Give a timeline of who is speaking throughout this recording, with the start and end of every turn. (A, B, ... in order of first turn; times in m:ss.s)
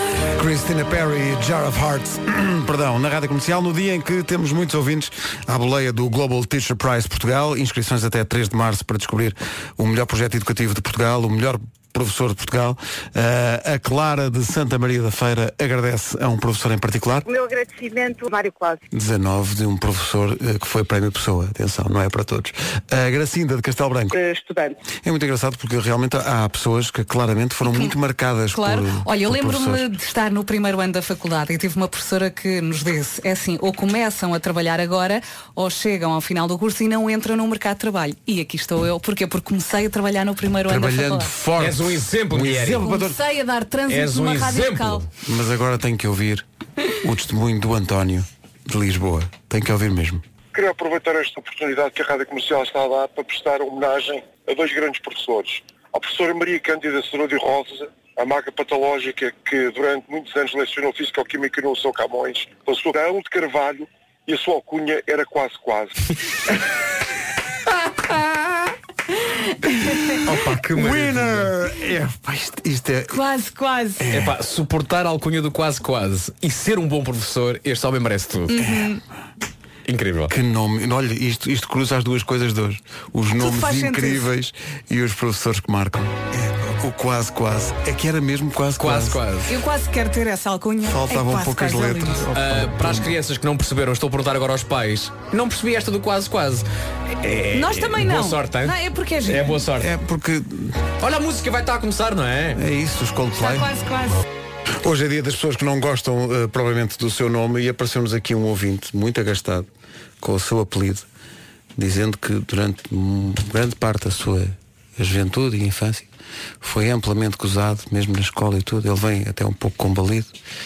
0:00.3-0:17.3 A
0:17.3-0:18.8 B
0:18.9-0:24.2 A
0:24.1-0:24.8 B
0:25.0-0:29.9 A
0:28.5-0:41.3 C
0:40.7-0:43.2 A
0:41.6-0:42.9 D
0:42.8-0:45.0 C
0:43.9-0:45.1 D
0:45.2-0:46.4 A
0:47.0-0:50.2 A
0:50.5-1:05.9 E
1:09.7-1:10.2 C
1:10.2-1:11.5 D
1:10.7-1:13.2 A
1:13.1-1:14.1 C
1:14.0-1:14.3 A
1:14.1-1:18.6 D
1:18.5-1:19.0 C
1:19.9-1:20.3 D
1:20.3-1:29.2 A
1:23.4-1:24.2 C
1:28.8-1:29.5 D
1:29.5-1:32.2 C
1:30.8-1:33.1 A
1:32.3-1:36.6 D
1:37.2-1:39.9 D
1:37.5-1:39.6 C
1:39.8-1:40.8 A
1:41.0-1:42.6 D
1:42.6-1:43.7 A
1:43.4-1:44.2 C
1:44.8-1:49.7 A
1:50.2-1:51.0 A
1:51.8-1:56.1 A
1:56.6-2:00.3 A